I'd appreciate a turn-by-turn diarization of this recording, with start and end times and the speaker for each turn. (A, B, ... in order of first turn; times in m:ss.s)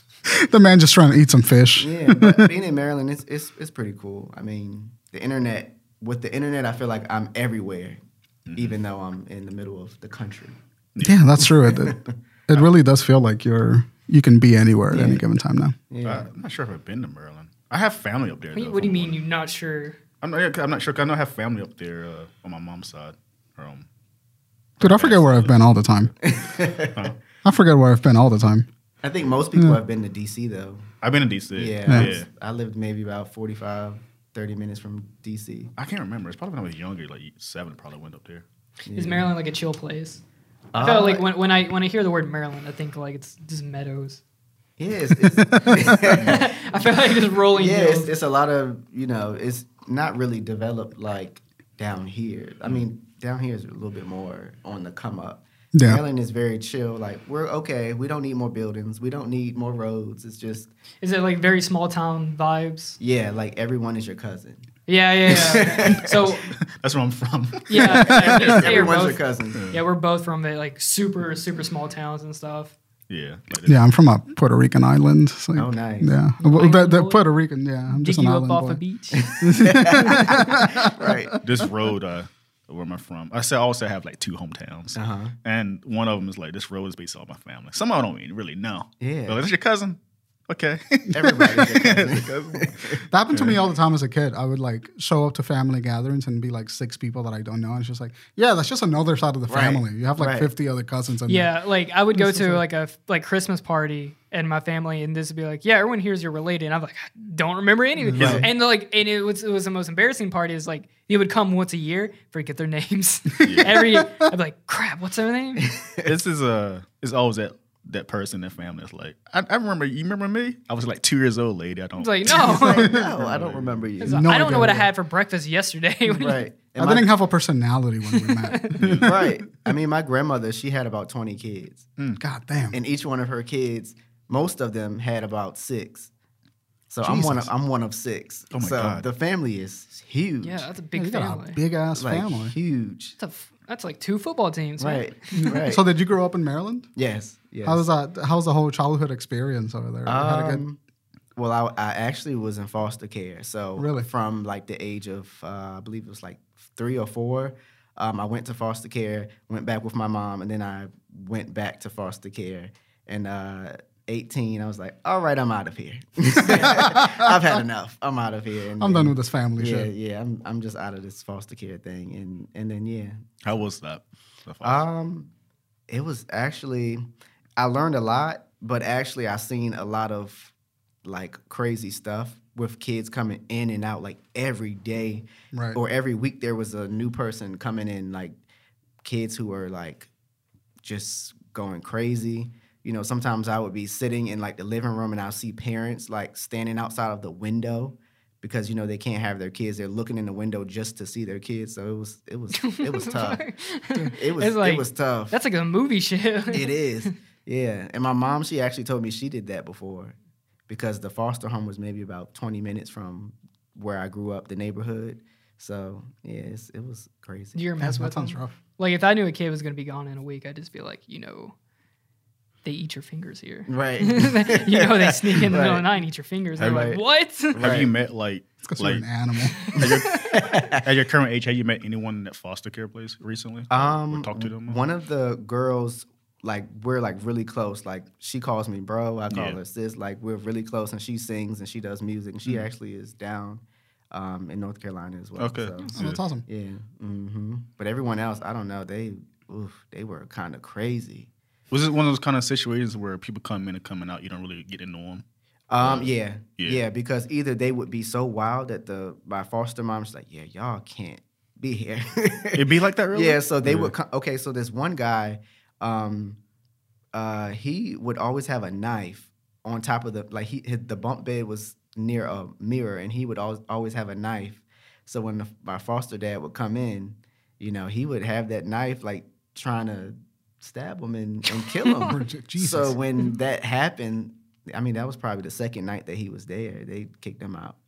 0:00.3-0:02.5 A
0:01.8-0:08.0 B
0:08.4-0:08.8 C
0:08.6-0:10.6 B
0:10.9-0:11.2 C
0:11.0-0:15.7 A
0:11.4-0:12.1 B
0:14.9-0:15.2 B
0:15.9-0:16.3 B
0:16.0-0:19.2 C
0:18.5-0:20.0 D
0:20.2-0:23.9 C
0:24.8-0:25.6 C
0:24.8-0:26.1 A
0:26.2-0:27.1 B
0:27.4-0:28.7 A
0:29.0-0:30.9 B
0:31.0-0:32.3 C
0:31.6-0:35.7 B
0:35.8-0:38.4 C
0:38.9-0:39.3 B
0:38.9-0:40.2 D
0:40.7-0:41.2 B
0:40.8-0:44.2 D
0:44.8-0:46.5 B
0:45.5-0:46.0 A
0:46.0-0:48.1 D
0:46.0-0:46.4 C
0:47.5-1:00.7 B
0:55.7-0:56.0 A
1:01.0-1:03.0 D
1:03.0-1:04.6 B
1:04.9-1:06.5 D
1:05.3-1:06.1 B
1:06.2-1:08.3 C
1:07.7-1:09.2 D
1:07.8-1:08.6 A
1:08.2-1:09.6 B
1:09.5-1:09.8 C
1:09.7-1:12.7 D
1:13.1-1:13.9 C
1:13.6-1:18.8 A
1:15.5-1:16.1 B
1:16.4-1:17.3 D
1:17.9-1:20.6 D
1:19.1-1:21.4 B
1:19.4-1:21.4 A
1:21.4-1:32.8 C
1:24.9-1:25.3 B
1:29.0-1:29.4 B
1:31.1-1:33.0 B
1:33.1-1:41.5 A
1:33.3-1:33.6 C
1:39.5-1:40.5 B
1:41.3-1:55.7 D
1:42.1-1:42.6 A
1:48.0-1:48.4 A
1:48.1-1:48.4 B
1:48.1-1:48.5 C
1:53.4-1:53.8 C
1:53.6-1:54.0 A
1:55.6-1:56.1 B
1:56.0-2:03.9 C
2:02.0-2:02.9 D
2:02.4-2:03.1 A
2:02.6-2:04.7 B
2:04.0-2:06.4 D
2:04.0-2:04.9 A
2:06.1-2:07.1 B
2:06.8-2:09.4 A
2:08.1-2:08.8 D
2:08.8-2:09.1 C
2:09.0-2:11.8 B
2:12.2-2:12.8 A
2:12.7-2:16.1 B
2:16.9-2:20.7 B
2:17.0-2:17.5 A
2:18.5-2:19.0 C
2:20.4-2:21.6 D
2:21.0-2:22.5 A
2:22.0-2:23.1 B
2:23.2-2:25.5 D
2:24.8-2:25.8 B
2:25.4-2:26.9 A
2:27.0-2:27.8 B
2:27.6-2:30.6 A
2:30.0-2:30.8 B
2:31.4-2:53.2 B
2:33.8-2:34.1 A
2:46.4-2:47.5 A
2:48.8-2:49.9 A
2:53.4-2:54.8 C
2:54.6-2:55.3 B
2:55.9-2:57.0 B
2:57.6-3:00.5 B
3:01.0-3:08.4 B
3:05.5-3:05.8 A
3:09.0-3:10.1 B
3:10.8-3:23.4 B
3:22.5-3:27.1 D
3:24.1-3:25.3 B
3:26.5-3:30.1 B
3:30.7-3:37.6 B
3:37.5-3:41.5 D
3:37.8-3:38.6 A
3:42.6-3:47.6 D
3:43.7-3:45.8 B
3:46.6-3:46.9 C
3:46.6-3:47.0 B
3:47.5-3:47.9 B
3:47.6-3:49.0 C
3:48.6-3:49.6 A
3:49.5-3:50.3 D
3:49.6-3:54.8 C
3:49.8-3:50.9 B
3:53.7-4:11.3 B
3:59.3-3:59.6 C
4:05.4-4:06.2 C
4:05.9-4:06.4 A
4:11.7-4:15.2 C
4:15.7-4:26.4 B
4:15.8-4:16.8 C
4:22.5-4:23.9 C
4:27.1-4:47.8 B
4:41.7-4:41.9 D
4:42.0-4:43.0 A